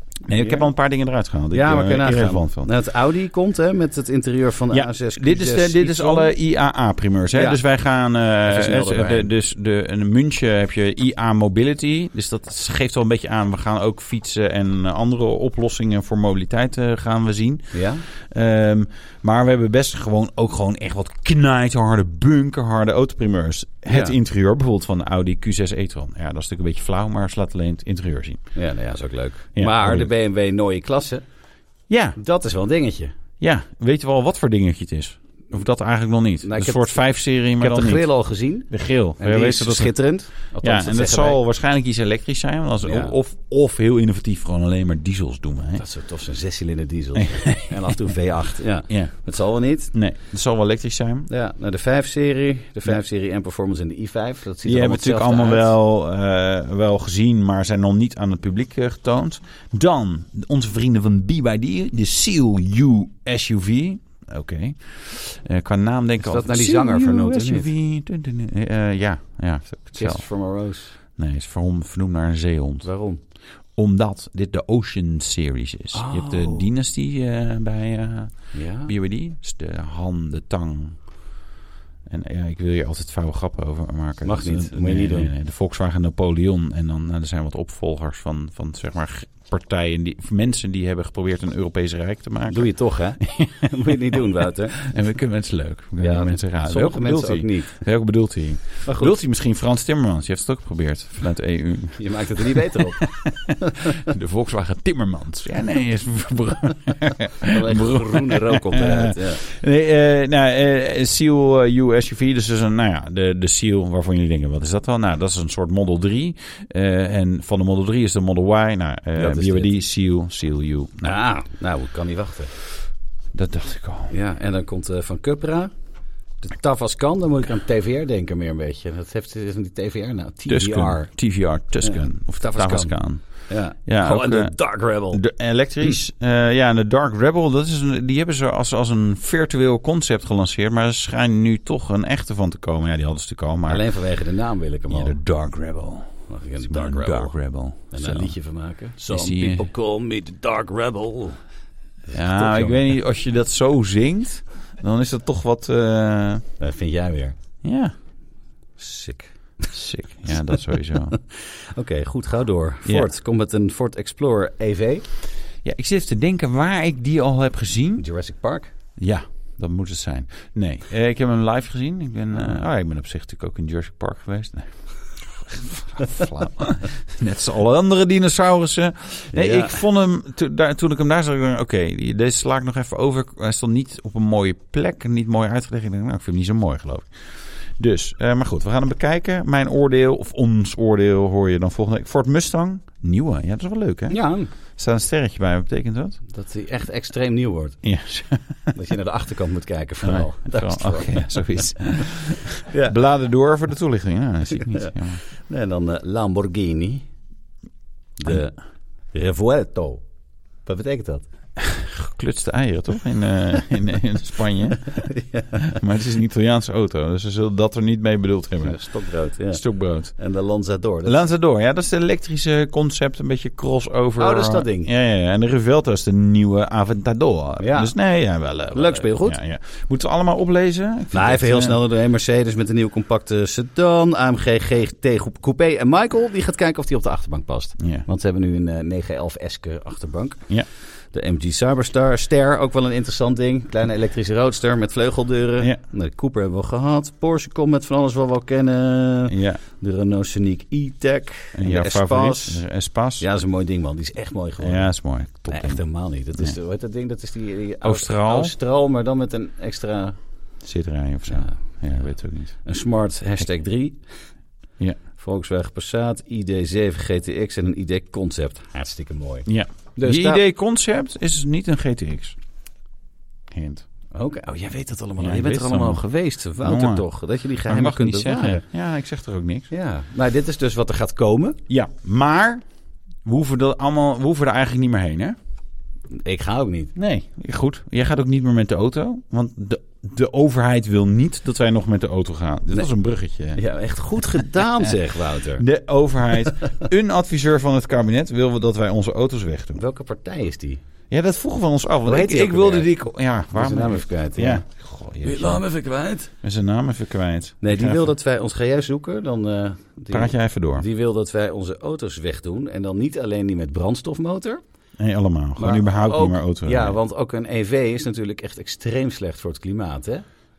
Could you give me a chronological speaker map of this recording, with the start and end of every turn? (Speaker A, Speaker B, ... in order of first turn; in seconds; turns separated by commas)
Speaker A: 0.3-2.7, Speaker B: 0.3-0.7, Speaker B: 1.5-6.3, Speaker A: 4.7-28.4, Speaker B: 7.3-7.6, Speaker B: 8.4-9.3, Speaker B: 17.7-18.0, Speaker B: 23.9-24.1, Speaker B: 28.5-31.2, Speaker A: 29.6-30.1, Speaker A: 31.9-32.2, Speaker B: 32.2-33.1, Speaker A: 33.4-38.0, Speaker B: 36.4-37.0, Speaker B: 37.6-41.4, Speaker A: 38.7-39.9, Speaker A: 40.6-45.8, Speaker B: 42.8-43.1, Speaker B: 45.8-49.9, Speaker A: 47.1-48.0, Speaker A: 48.9-49.1, Speaker A: 49.9-51.3, Speaker B: 51.3-55.7, Speaker A: 54.6-70.2, Speaker B: 66.2-67.7, Speaker B: 69.9-70.9, Speaker A: 71.1-72.9, Speaker B: 72.8-73.2, Speaker A: 73.8-81.0, Speaker B: 75.9-76.7, Speaker B: 78.5-78.9, Speaker A: 82.0-92.7, Speaker B: 84.2-85.3, Speaker B: 92.5-94.8, Speaker A: 93.2-121.1, Speaker B: 96.0-97.8, Speaker B: 98.8-99.2, Speaker B: 102.0-104.0, Speaker B: 107.4-109.4, Speaker B: 119.1-119.8, Speaker B: 121.0-122.5, Speaker A: 123.3-124.1, Speaker B: 124.1-125.7, Speaker B: 126.4-131.1, Speaker A: 130.5-133.2, Speaker B: 131.8-135.2, Speaker A: 133.8-134.5, Speaker A: 135.1-143.8, Speaker B: 143.7-145.2, Speaker A: 144.9-146.1, Speaker B: 146.3-147.3, Speaker A: 146.6-148.3, Speaker B: 147.9-151.4, Speaker A: 149.1-149.7, Speaker B: 152.1-152.9, Speaker A: 152.1-156.4, Speaker B: 156.6-157.3, Speaker A: 157.6-157.9, Speaker B: 158.8-159.7, Speaker A: 159.7-161.1, Speaker B: 160.5-165.0, Speaker A: 165.6-168.0, Speaker B: 168.0-168.7, Speaker A: 169.0-174.7, Speaker A: 175.3-187.1, Speaker B: 179.3-179.8, Speaker A: 187.8-194.2, Speaker B: 194.1-194.5, Speaker A: 194.8-196.2, Speaker B: 196.3-197.8, Speaker A: 197.8-198.8, Speaker B: 198.7-202.1, Speaker A: 200.0-205.2, Speaker B: 202.6-202.9, Speaker B: 204.8-207.1, Speaker B: 208.2-208.6, Speaker B: 209.1-210.0, Speaker B: 210.6-211.2, Speaker A: 211.6-215.0, Speaker B: 214.9-215.8, Speaker A: 215.6-218.8, Speaker B: 218.6-219.6, Speaker A: 219.5-220.1, Speaker B: 220.2-221.2, Speaker A: 221.0-231.8, Speaker B: 224.2-224.9, Speaker B: 227.6-227.9, Speaker B: 228.7-229.4, Speaker B: 231.1-240.4, Speaker A: 237.8-238.1, Speaker B: 241.1-252.6, Speaker A: 249.3-249.6, Speaker A: 251.5-253.2, Speaker B: 253.2-254.9, Speaker A: 254.6-255.8, Speaker B: 255.5-260.2, Speaker A: 257.8-258.5, Speaker A: 260.6-262.5, Speaker B: 261.3-261.6, Speaker B: 262.6-264.0, Speaker B: 265.1-270.4, Speaker A: 269.4-272.4, Speaker A: 273.5-273.8, Speaker B: 274.1-278.6, Speaker A: 275.2-276.0, Speaker A: 276.6-277.1, Speaker A: 277.6-279.7, Speaker B: 279.7-281.6, Speaker A: 281.7-282.6, Speaker A: 283.2-285.4, Speaker B: 286.1-286.9, Speaker A: 286.9-293.6, Speaker B: 293.5-295.6, Speaker A: 295.6-299.8, Speaker B: 299.7-300.8, Speaker A: 301.1-305.6, Speaker B: 302.1-302.9, Speaker B: 303.5-304.6, Speaker B: 305.2-306.3, Speaker A: 306.4-308.1, Speaker B: 307.6-314.6, Speaker A: 310.1-310.8, Speaker A: 315.0-316.9, Speaker B: 315.6-320.2